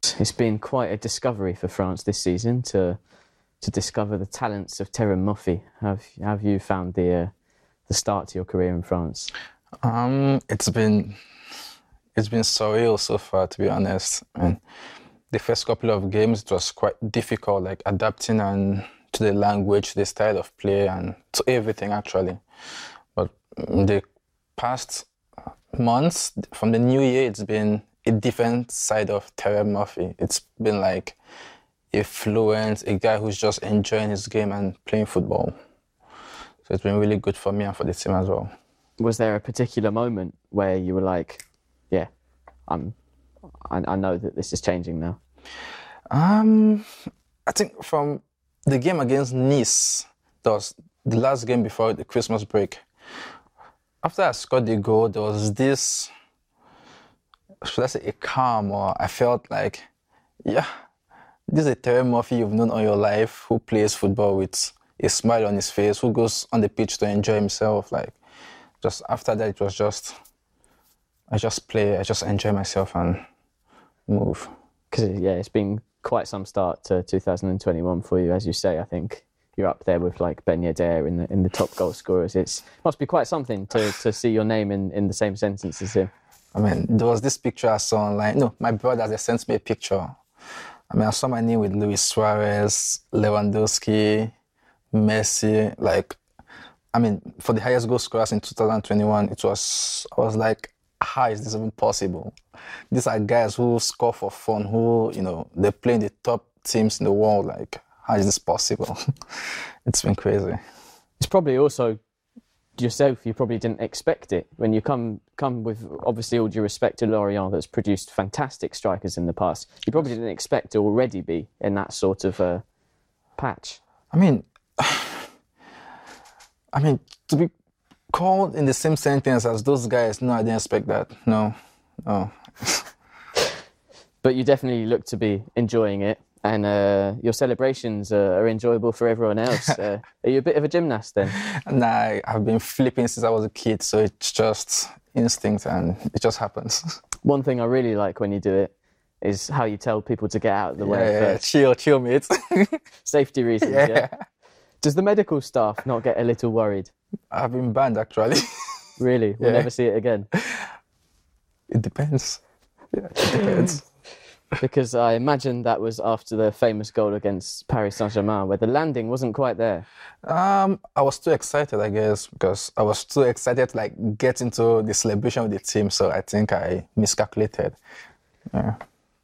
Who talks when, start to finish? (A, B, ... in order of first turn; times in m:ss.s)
0:00.2-0:03.0 A
0:03.6-0:07.3 A
0:07.9-0:09.3 A
0:09.8-0:11.2 B
0:12.2-0:14.6 B
0:15.3-0:22.4 B
0:23.2-0:24.0 B
0:24.6-0:25.1 B
0:25.8-0:31.2 B
0:31.9-0:35.5 B
0:36.6-0:38.5 B
0:39.0-0:42.1 A
0:42.7-0:43.0 A
0:43.7-0:45.2 A
0:46.1-0:46.9 B
0:47.5-0:52.8 B
0:54.0-0:56.1 B
0:57.6-0:59.8 B
1:01.5-1:08.2 B
1:08.8-1:10.2 B
1:11.3-1:13.2 B
1:14.1-1:14.5 B
1:14.9-1:26.1 A
1:26.6-1:30.1 B
1:30.9-1:34.3 B
1:34.9-1:36.2 B
1:36.9-1:42.4 B
1:42.9-1:49.0 B
1:49.9-1:50.6 B
1:51.2-1:52.0 A
1:52.8-2:02.6 A
2:03.4-2:03.8 A
2:04.1-2:05.3 B
2:06.7-2:07.5 B
2:08.1-2:12.9 B
2:14.2-2:21.4 A
2:21.4-2:26.9 B
2:27.2-2:31.4 A
2:30.8-2:32.8 B
2:33.0-2:34.1 A
2:33.6-2:34.2 B
2:34.8-2:36.9 A
2:37.3-2:38.8 B
2:39.0-2:40.3 A
2:39.4-2:39.7 B
2:40.3-2:40.7 B
2:41.7-2:42.4 B
2:43.0-2:43.8 B
2:44.6-2:49.9 A
2:50.2-2:57.8 B
2:58.5-2:58.8 B